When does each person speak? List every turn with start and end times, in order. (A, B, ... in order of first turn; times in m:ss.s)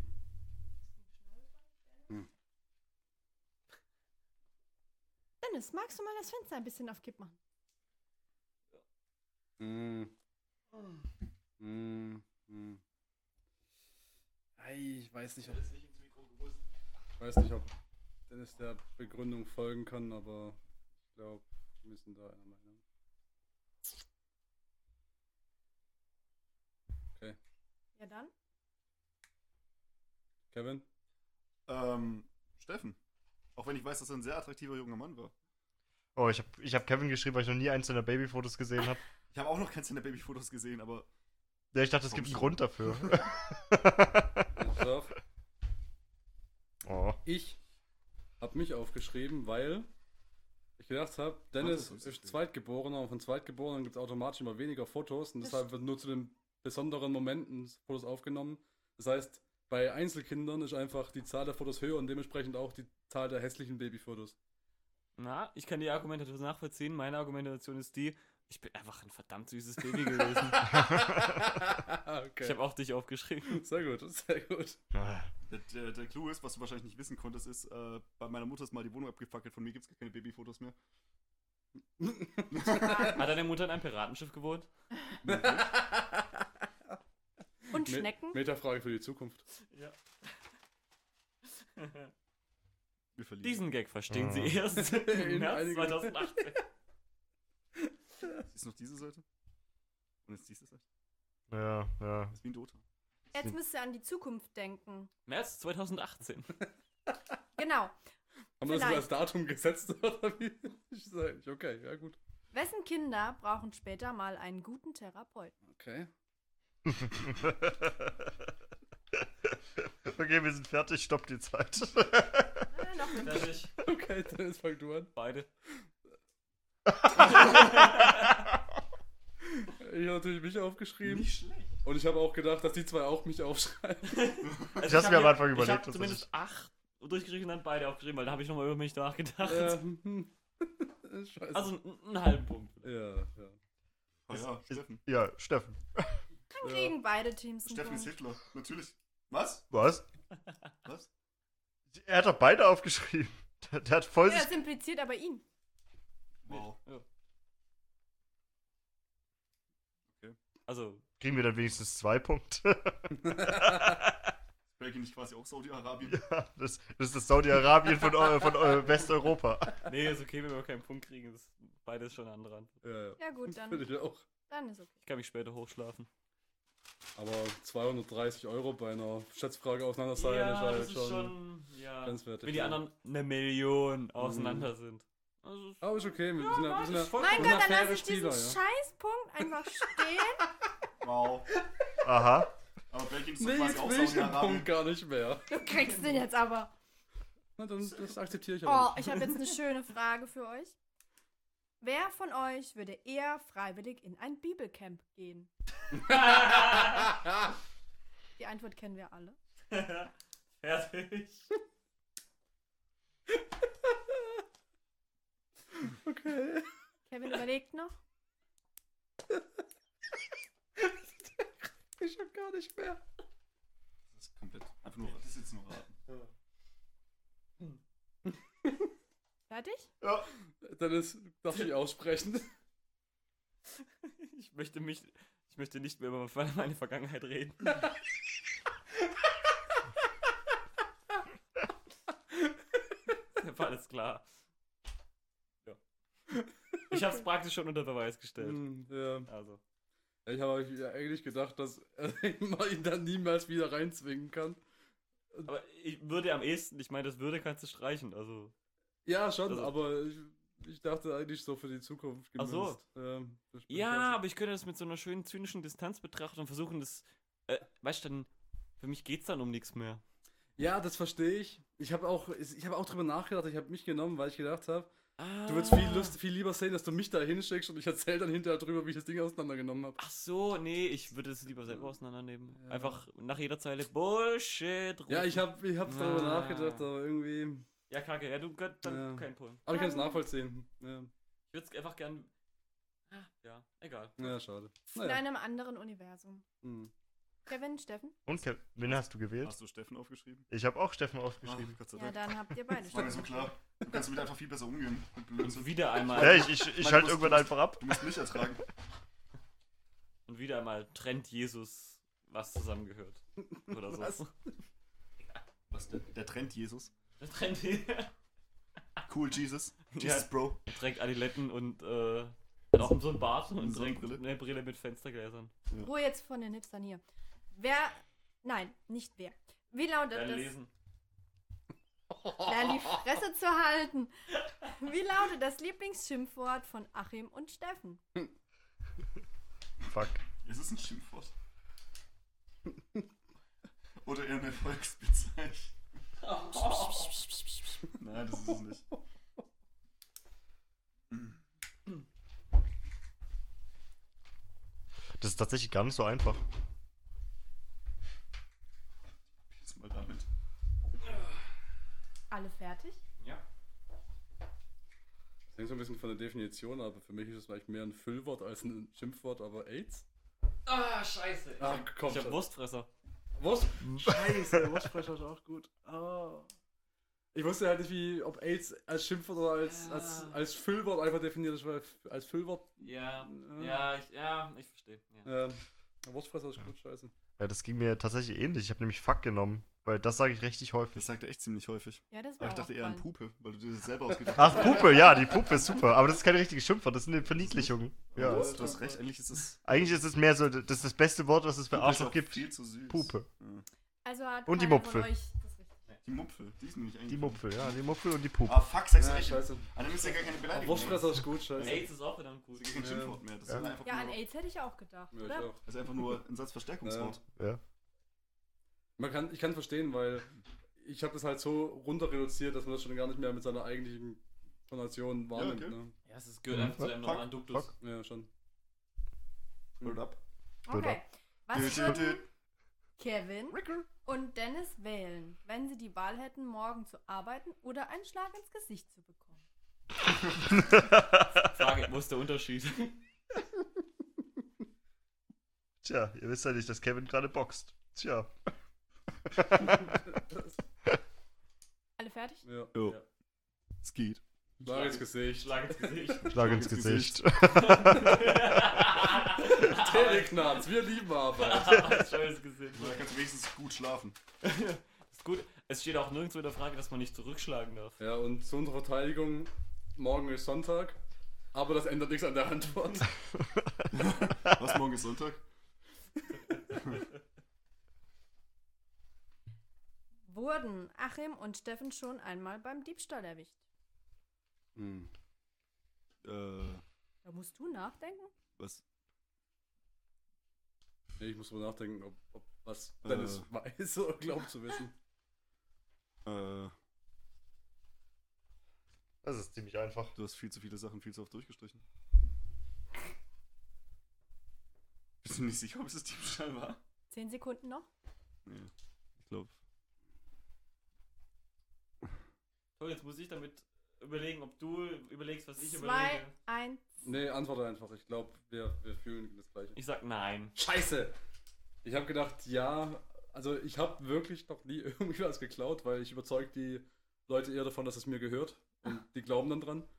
0:05.4-0:07.4 A
0:09.6-0:10.1 B
0:11.6-0:12.8 B
0:14.6-0:15.6 B
0:15.4-0:16.6 C
0:17.2-0:17.7 B
0:18.3-0:20.6 B
0:21.1-0:22.8 B
0:28.0-0:28.3 A
0:30.5-0:30.8 B
0:31.7-0:33.0 D
0:33.5-0:35.3 D
0:36.2-0:39.0 E
0:39.3-0:41.1 D
0:41.7-0:44.6 E
0:42.0-0:43.2 D
0:44.6-0:45.1 B
0:46.8-0:47.2 E
0:47.2-0:47.6 B
0:48.4-0:49.9 B
0:50.8-1:04.4 B
0:51.6-0:52.4 D
1:05.2-1:10.7 C
1:10.0-1:12.6 B
1:10.6-1:11.4 E
1:12.4-1:13.6 C
1:13.5-1:14.8 B
1:14.9-1:15.3 E
1:15.5-1:20.8 D
1:22.0-1:23.2 B
1:22.5-1:23.2 D
1:23.1-1:24.7 C
1:25.2-1:25.7 D
1:25.2-1:26.4 B
1:27.7-1:28.4 A
1:27.8-1:29.4 B
1:29.7-1:30.0 C
1:31.8-1:32.1 C
1:33.1-1:33.6 D
1:33.4-1:36.6 C
1:34.1-1:34.6 E
1:34.7-1:36.5 B
1:37.8-1:38.4 B
1:38.5-1:39.2 D
1:40.2-1:40.8 D
1:41.5-1:42.4 E
1:42.3-1:42.8 D
1:43.3-1:45.1 A
1:45.3-1:46.6 C
1:47.6-1:48.0 A
1:48.6-1:52.2 B
1:48.6-1:49.1 A
1:52.5-1:55.5 A
1:55.7-1:56.1 B
1:56.9-1:58.3 E
1:59.8-2:02.7 E
2:02.7-2:03.5 A
2:03.2-2:03.7 C
2:03.8-2:05.1 B
2:05.1-2:05.5 C
2:07.0-2:07.6 E
2:07.2-2:08.3 C
2:09.5-2:11.3 B
2:11.0-2:11.7 D
2:11.8-2:14.4 B
2:14.1-2:19.8 C
2:14.5-2:14.8 D
2:14.8-2:16.2 E
2:19.4-2:21.7 B
2:21.5-2:22.9 C
2:22.8-2:23.6 B
2:24.3-2:25.0 D
2:24.3-2:26.2 E
2:26.6-2:28.1 A
2:26.6-2:26.9 B
2:27.6-2:29.7 D
2:29.7-2:30.0 E
2:31.9-2:34.6 E
2:34.2-2:35.4 A
2:36.4-2:36.8 D
2:36.5-2:37.0 C
2:40.1-2:40.4 D
2:40.7-2:41.0 C
2:41.2-2:44.3 E
2:44.7-2:46.2 D
2:46.0-2:49.8 E
2:49.8-2:52.8 C
2:52.8-2:54.2 B
2:53.2-2:53.9 A
2:54.5-2:54.9 A
2:55.0-2:56.1 C
2:57.2-3:01.3 B
3:00.1-3:07.8 C
3:02.0-3:02.8 B
3:04.2-3:04.7 B
3:05.8-3:08.6 B
3:06.7-3:10.4 A
3:11.0-3:11.5 D
3:12.0-3:12.5 E
3:12.9-3:14.7 D
3:13.4-3:15.5 B
3:15.5-3:16.7 A
3:17.6-3:19.4 B
3:18.6-3:20.7 A
3:21.8-3:25.5 A
3:26.0-3:26.4 B
3:26.0-3:27.1 C
3:28.4-3:29.4 A
3:29.7-3:31.5 C
3:33.4-3:34.4 B
3:35.8-3:36.7 B
3:37.1-3:38.0 A
3:42.0-3:43.0 B
3:44.1-3:46.0 D
3:49.5-3:49.9 A
3:50.0-3:50.3 D
3:50.6-3:52.5 B
3:54.0-3:57.8 C
4:03.4-4:04.2 C
4:06.3-4:07.0 B
4:06.9-4:08.7 C
4:08.4-4:09.3 B
4:09.2-4:09.6 C
4:10.2-4:14.6 B
4:15.4-4:18.5 C
4:19.0-4:24.1 B
4:19.4-4:19.7 C
4:22.4-4:22.8 C
4:23.7-4:28.3 C
4:28.8-4:30.0 C
4:30.6-4:34.9 B
4:35.2-4:36.2 C
4:35.4-4:40.0 B
4:40.0-4:46.9 C
4:42.6-4:43.0 B
4:45.1-4:47.7 B
4:47.9-4:49.6 C
4:48.8-4:51.1 B
4:49.7-4:50.2 A
4:51.5-4:52.3 C
4:53.1-4:54.4 C
4:54.2-4:55.2 B
4:55.0-4:56.4 A
4:56.6-4:56.9 B
4:57.4-4:58.2 A
4:58.2-4:59.5 E
4:59.4-5:00.5 D
5:00.5-5:01.8 E
5:01.4-5:08.6 D
5:01.9-5:03.4 A
5:05.4-5:06.8 C
5:06.1-5:08.1 E
5:10.2-5:14.3 C
5:13.4-5:14.5 B
5:15.7-5:16.9 D
5:17.2-5:18.1 C
5:19.1-5:20.6 D
5:19.9-5:25.5 C
5:23.5-5:24.2 D
5:25.8-5:27.0 A
5:27.5-5:30.5 A
5:30.1-5:30.7 C
5:32.1-5:33.0 B
5:32.4-5:38.0 A
5:39.8-5:40.2 E
5:40.4-5:41.3 D
5:44.0-5:45.7 D
5:46.3-5:47.2 C
5:48.0-5:48.9 D
5:51.1-5:51.4 D
5:55.2-5:56.4 E
5:59.5-6:00.3 D
6:02.3-6:03.0 A
6:03.2-6:03.4 C
6:05.5-6:10.0 B
6:10.6-6:12.9 C
6:11.6-6:12.4 B
6:13.4-6:16.5 B
6:17.3-6:22.7 B
6:19.6-6:20.4 C
6:22.8-6:25.3 C
6:23.2-6:23.9 B
6:25.2-6:27.1 B
6:27.4-6:31.1 E
6:30.9-6:35.0 D
6:32.1-6:33.1 A
6:34.3-6:38.7 E
6:37.3-6:39.9 D
6:38.2-6:39.0 B
6:39.6-6:43.3 E
6:41.7-6:43.6 D
6:44.0-6:45.7 A
6:44.5-6:45.1 E
6:46.0-6:47.8 D
6:47.1-6:48.7 E
6:48.4-6:51.9 D
6:49.0-6:49.7 B
6:50.5-6:51.8 B
6:51.6-6:52.7 C
6:52.5-6:54.2 D
6:52.8-6:53.6 B
6:53.8-6:55.5 A
6:55.1-6:55.6 B
6:55.6-6:57.2 D
6:56.8-6:57.2 B
6:57.3-6:57.6 E
6:59.0-7:05.9 B
7:05.3-7:05.8 D
7:06.1-7:07.7 C
7:06.5-7:07.7 E
7:07.0-7:07.3 D
7:07.8-7:08.3 B
7:09.8-7:10.2 D
7:10.6-7:12.2 A
7:10.7-7:11.0 E
7:11.5-7:12.3 D
7:13.0-7:19.4 A
7:13.5-7:13.9 D
7:20.6-7:21.2 E
7:21.4-7:23.0 C
7:25.8-7:28.3 E
7:29.3-7:30.0 E
7:32.0-7:32.4 A
7:32.4-7:32.7 B
7:33.8-7:34.2 D
7:34.6-7:36.6 C
7:34.6-7:36.2 B
7:36.3-7:38.4 E
7:36.3-7:37.8 D
7:37.4-7:40.6 C
7:39.2-7:41.8 B
7:41.4-7:43.0 C
7:42.7-7:44.2 D
7:44.4-7:48.0 C
7:48.0-7:51.0 B
7:51.5-7:53.1 B
7:53.4-7:54.6 E
7:53.9-7:55.4 D
8:00.2-8:03.6 A
8:04.8-8:05.1 B
8:06.2-8:06.8 D
8:07.2-8:08.3 A
8:08.6-8:08.8 D
8:11.2-8:14.9 B
8:13.0-8:13.5 D
8:16.2-8:16.7 D
8:19.2-8:20.1 E
8:20.1-8:21.8 D
8:25.2-8:26.8 D
8:27.1-8:27.9 A
8:28.4-8:29.5 D
8:32.8-8:36.3 C
8:35.6-8:36.8 A
8:37.0-8:39.8 B
8:39.7-8:40.5 C
8:40.6-8:41.1 B
8:41.8-8:49.9 B